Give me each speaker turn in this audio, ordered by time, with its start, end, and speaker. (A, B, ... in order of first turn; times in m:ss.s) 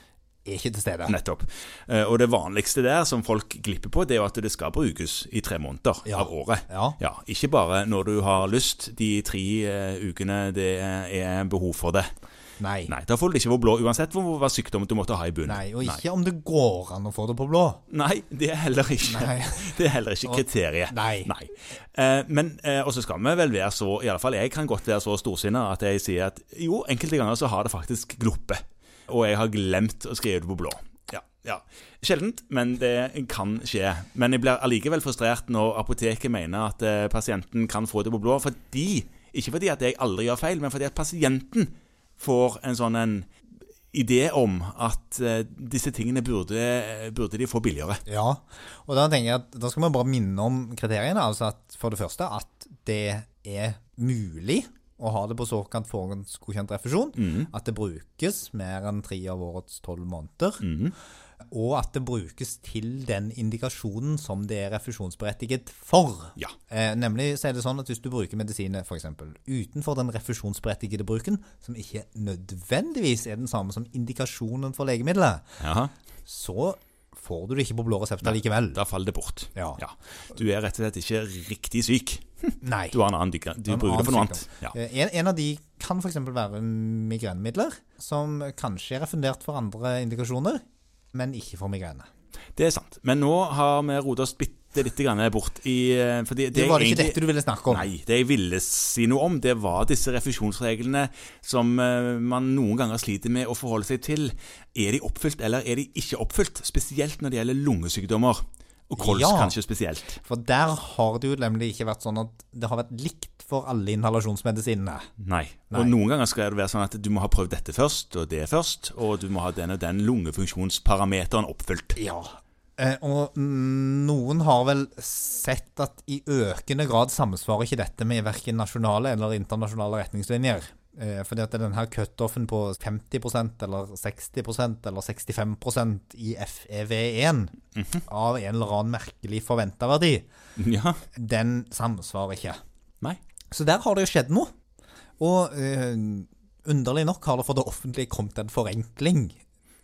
0:00.4-0:01.2 A
0:01.1-0:12.1 B
0:06.1-0:07.0 A
0:12.6-0:12.9 A
0:12.9-0:16.0 B
0:15.4-0:17.8 A
0:17.9-0:43.3 B
0:19.0-0:19.7 A
0:20.2-0:21.3 A
0:43.9-0:48.0 B
0:48.0-1:00.6 A
0:57.2-0:57.5 B
1:00.6-1:00.9 B
1:01.5-1:15.6 A
1:15.6-1:15.9 B
1:16.2-1:18.8 A
1:18.2-1:24.7 B
1:19.6-1:19.8 A
1:22.6-1:23.0 A
1:23.7-1:32.1 A
1:32.6-1:37.2 B
1:36.5-1:37.9 A
1:37.7-1:50.2 B
1:49.0-1:49.5 A
1:50.2-1:55.1 A
1:55.2-2:02.0 B
2:02.0-2:17.5 A
2:18.1-2:20.3 A
2:20.6-2:21.0 B
2:21.1-2:22.6 A
2:23.5-2:24.5 A
2:25.2-2:29.4 A